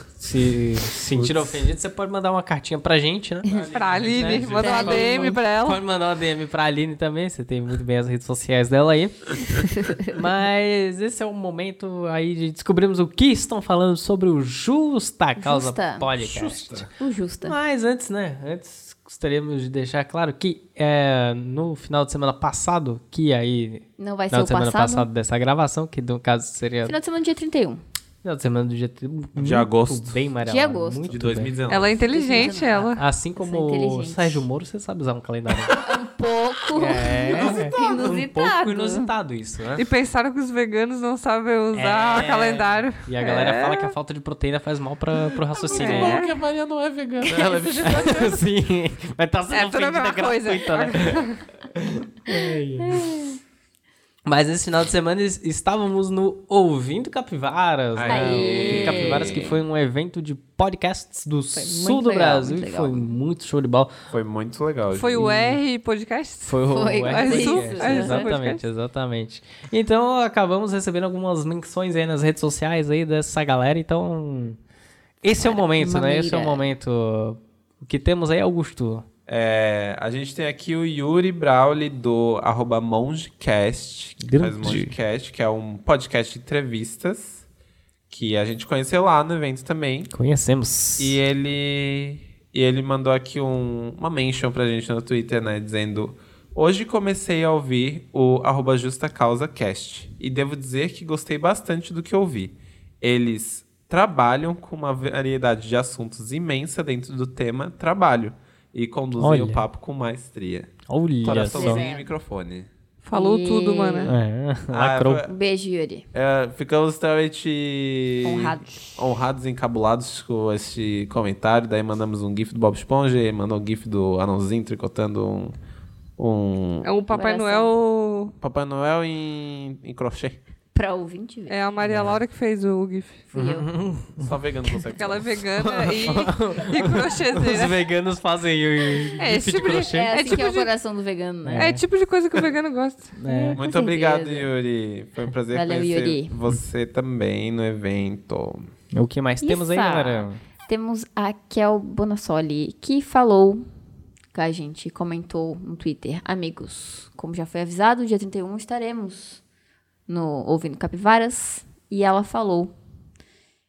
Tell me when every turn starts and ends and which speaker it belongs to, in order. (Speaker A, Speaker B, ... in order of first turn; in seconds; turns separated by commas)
Speaker A: 0.2-3.6, Speaker B: 1.1-1.7, Speaker B: 3.5-5.1, Speaker C: 3.7-5.8, Speaker A: 4.1-16.8, Speaker D: 4.6-5.4, Speaker D: 15.4-16.1, Speaker B: 16.2-16.9, Speaker D: 17.0-17.5, Speaker A: 17.4-26.9, Speaker D: 24.0-25.1, Speaker D: 26.8-27.8, Speaker A: 28.2-31.5, Speaker B: 29.4-30.2, Speaker D: 30.4-31.2, Speaker B: 31.1-32.5, Speaker C: 31.7-33.0, Speaker D: 32.0-34.5, Speaker A: 33.0-35.8, Speaker D: 35.8-39.1, Speaker A: 36.7-39.8, Speaker B: 37.3-38.2, Speaker C: 39.8-43.9, Speaker A: 41.7-46.2, Speaker B: 45.5-48.5, Speaker C: 45.7-46.3, Speaker A: 47.8-53.2, Speaker C: 49.5-51.4, Speaker A: 54.2-63.9, Speaker B: 57.9-59.6, Speaker D: 58.1-59.4, Speaker D: 61.5-63.1, Speaker B: 64.1-65.4, Speaker C: 64.9-68.6, Speaker A: 66.5-74.6, Speaker D: 66.7-68.3, Speaker A: 75.2-79.0, Speaker D: 75.4-76.6, Speaker B: 79.3-87.4, Speaker A: 84.2-84.9, Speaker B: 88.1-90.1, Speaker A: 90.1-91.2, Speaker B: 91.0-110.7, Speaker A: 109.2-109.6, Speaker A: 110.9-111.8, Speaker B: 111.2-112.7, Speaker D: 111.5-112.0, Speaker C: 113.0-114.1, Speaker D: 113.1-114.1, Speaker A: 114.1-115.2, Speaker B: 114.7-115.3, Speaker D: 115.2-116.0, Speaker B: 116.1-125.5, Speaker D: 118.2-119.0, Speaker B: 126.2-126.9, Speaker C: 126.8-128.3, Speaker D: 127.1-127.7, Speaker B: 128.4-130.4, Speaker D: 130.7-131.6, Speaker C: 131.5-133.2, Speaker D: 133.3-133.7, Speaker A: 133.3-134.3, Speaker B: 134.2-135.3, Speaker C: 135.0-137.8, Speaker A: 135.7-140.4, Speaker C: 139.2-140.7, Speaker D: 139.6-141.7, Speaker A: 141.4-141.8, Speaker C: 141.6-143.1, Speaker A: 143.2-143.6, Speaker D: 143.3-144.5, Speaker B: 143.5-148.7, Speaker D: 145.5-146.3, Speaker A: 148.9-150.4, Speaker D: 149.4-153.7, Speaker D: 154.3-159.4, Speaker D: 160.1-162.7